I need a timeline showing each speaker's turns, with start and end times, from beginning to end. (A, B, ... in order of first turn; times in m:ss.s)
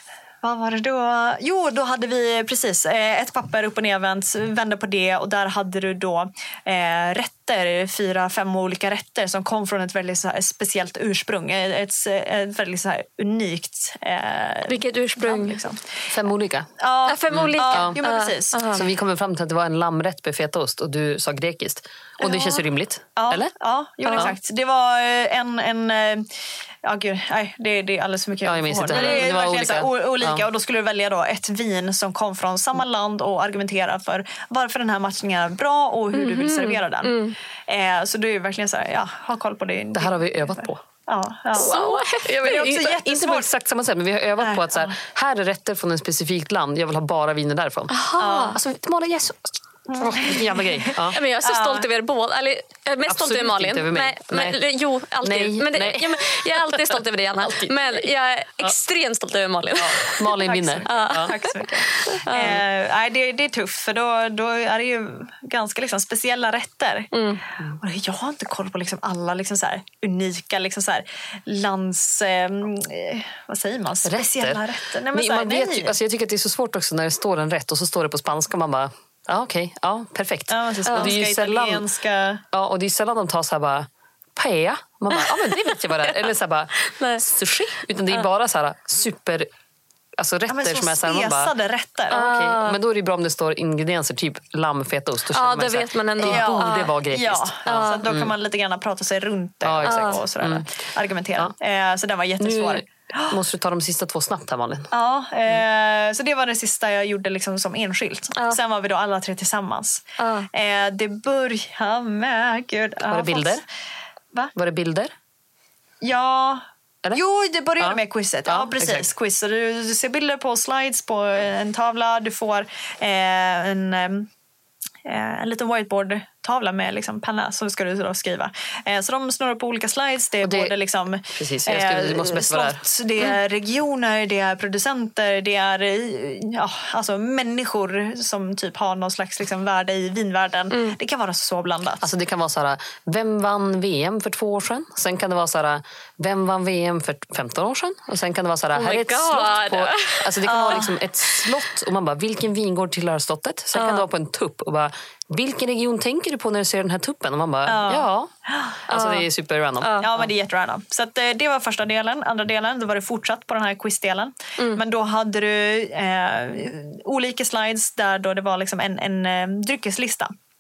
0:00.4-0:15.8 A
0:14.7-0:15.6 B
0:16.1-0:16.7 C
0:16.8-0:18.8 A
0:17.0-0:18.8 B
0:17.3-0:18.0 C
0:18.7-0:23.5 C
0:22.2-0:22.6 A
0:23.2-0:26.3 A
0:24.1-0:24.3 B
0:26.8-0:41.8 A
0:28.4-0:30.4 C
0:28.9-0:29.2 B
0:36.1-0:37.3 B
0:39.9-0:40.8 C
0:41.5-0:42.7 B
0:41.5-0:47.9 C
0:42.4-0:43.5 A
0:44.4-0:45.0 A
0:47.9-0:48.6 B
0:48.2-0:48.6 A
0:48.5-0:51.2 C
0:49.9-0:51.9 A
0:51.1-1:02.6 B
0:53.1-0:54.6 C
0:55.2-0:58.0 C
0:59.8-1:01.3 C
1:00.4-1:07.1 A
1:02.4-1:02.6 C
1:07.1-1:07.4 B
1:07.8-1:16.0 A
1:14.0-1:21.8 C
1:20.5-1:22.4 A
1:20.9-1:21.2 B
1:22.5-1:29.5 C
1:25.1-1:26.3 B
1:26.8-1:27.2 B
1:30.2-1:31.5 C
1:30.5-1:32.2 A
1:32.1-1:32.8 B
1:32.1-1:38.3 C
1:35.3-1:37.0 B
1:36.2-1:43.4 A
1:37.7-1:38.0 B
1:39.6-1:40.6 C
1:39.8-1:40.2 B
1:42.4-1:44.9 C
1:44.9-1:53.6 A
1:50.2-1:50.5 B
1:53.1-1:53.6 C
1:54.5-1:55.1 C
1:56.0-2:04.3 A
1:57.8-1:59.1 C
2:05.0-2:22.1 A
2:10.4-2:10.7 C
2:11.3-2:12.8 C
2:20.7-2:21.0 B
2:22.0-2:38.3 C
2:28.7-2:31.5 B
2:30.4-2:30.9 A
2:33.7-2:34.0 B
2:37.6-2:38.8 A
2:38.9-2:40.3 C
2:38.9-2:39.3 B
2:39.8-2:40.1 B
2:40.0-2:50.3 A